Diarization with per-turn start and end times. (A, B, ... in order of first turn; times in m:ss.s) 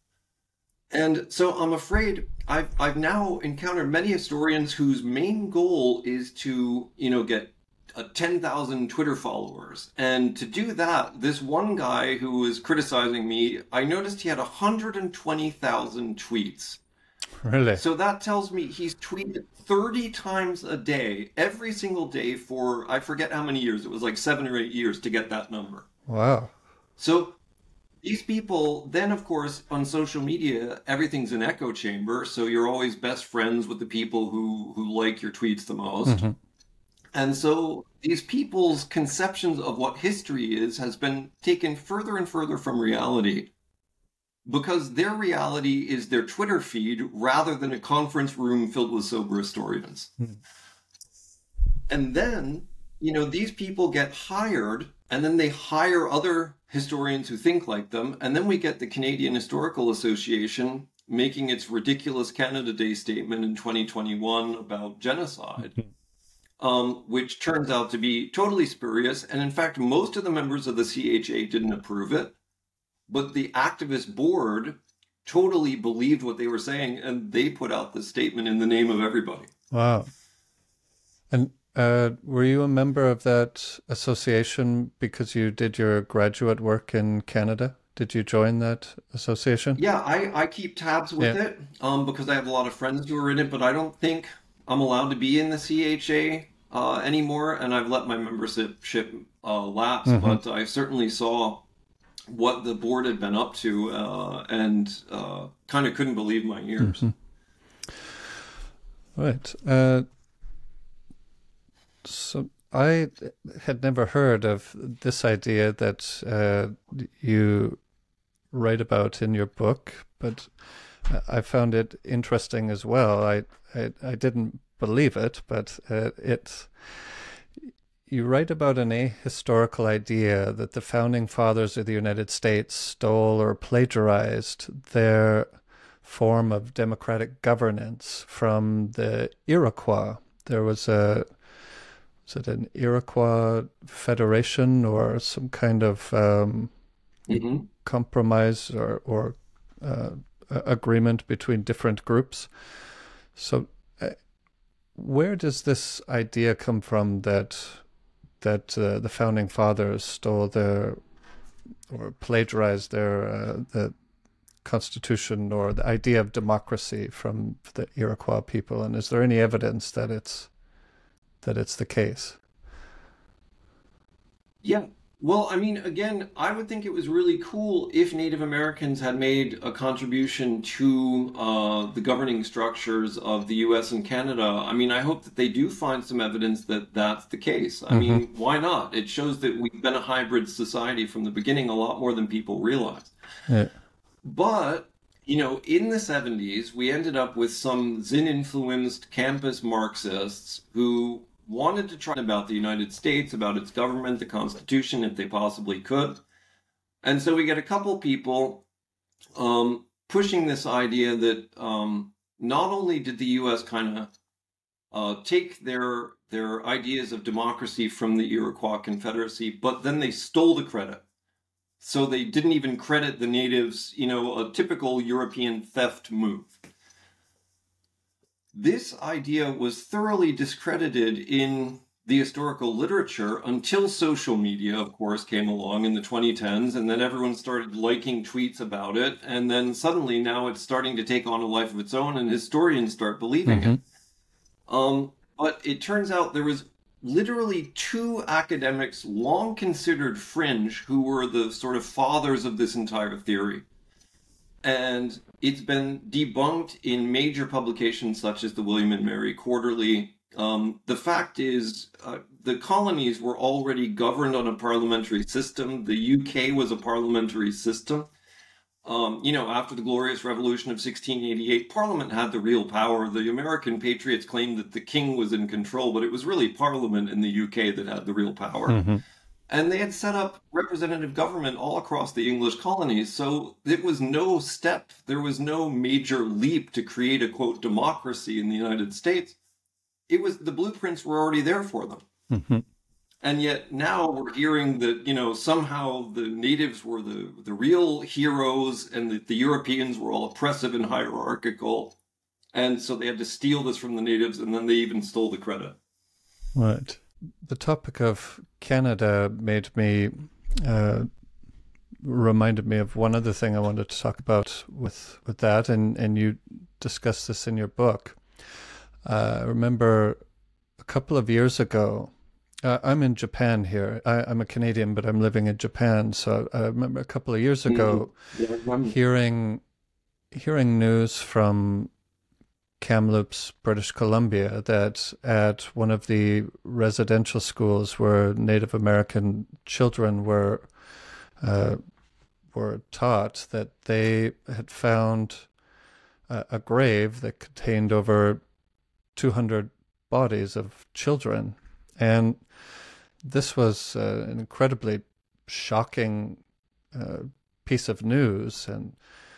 0:00.9-0:16.8 A
0:17.4-0:17.8 B
0:17.8-0:25.9 A
0:26.1-0:26.5 B
0:27.0-0:27.4 A
0:28.0-0:36.2 A
0:36.1-0:36.4 B
0:37.1-0:43.5 A
0:44.5-0:50.1 A
0:51.9-1:05.8 A
1:06.6-1:12.4 A
1:13.1-1:19.5 A
1:19.7-1:20.1 B
1:21.3-1:29.8 B
1:29.8-1:41.6 A
1:40.1-1:40.4 B
1:42.3-1:47.1 A
1:46.8-1:47.1 B
1:49.2-1:50.1 B
1:52.0-1:57.8 B
1:58.5-2:00.5 B
2:01.1-2:06.7 B
2:08.1-2:15.5 B
2:16.0-2:21.3 B
2:22.3-2:26.7 B
2:27.3-2:27.7 A
2:27.8-2:32.5 B
2:33.4-2:34.2 B
2:35.0-2:37.8 B
2:38.4-2:41.0 B
2:41.9-2:44.0 B
2:44.6-2:50.5 B
2:51.4-2:52.4 B
2:54.6-3:13.1 A
3:07.9-3:08.2 B
3:14.2-3:26.2 A
3:27.0-3:28.7 A
3:29.4-3:34.1 A
3:34.9-3:41.0 A
3:41.8-3:46.6 A
3:48.5-4:03.8 A
4:03.5-4:03.8 B
4:04.7-4:13.6 A
4:14.6-4:28.1 A
4:28.8-4:38.8 A
4:38.7-4:39.0 B
4:39.5-4:49.4 A
4:50.1-4:52.0 A
4:52.3-4:52.6 B
4:53.2-5:02.0 A
5:02.5-5:05.8 A
5:06.6-5:11.1 B
5:12.0-5:18.2 B
5:19.0-5:20.2 B
5:20.8-5:28.1 B
5:27.7-5:29.0 A
5:28.8-5:29.6 B
5:30.3-5:31.9 B
5:32.8-5:40.7 B
5:41.4-5:41.8 B
5:42.5-5:45.5 B
5:46.3-5:48.4 B
5:49.2-5:52.4 B
5:53.2-5:56.4 B
5:56.9-5:59.0 B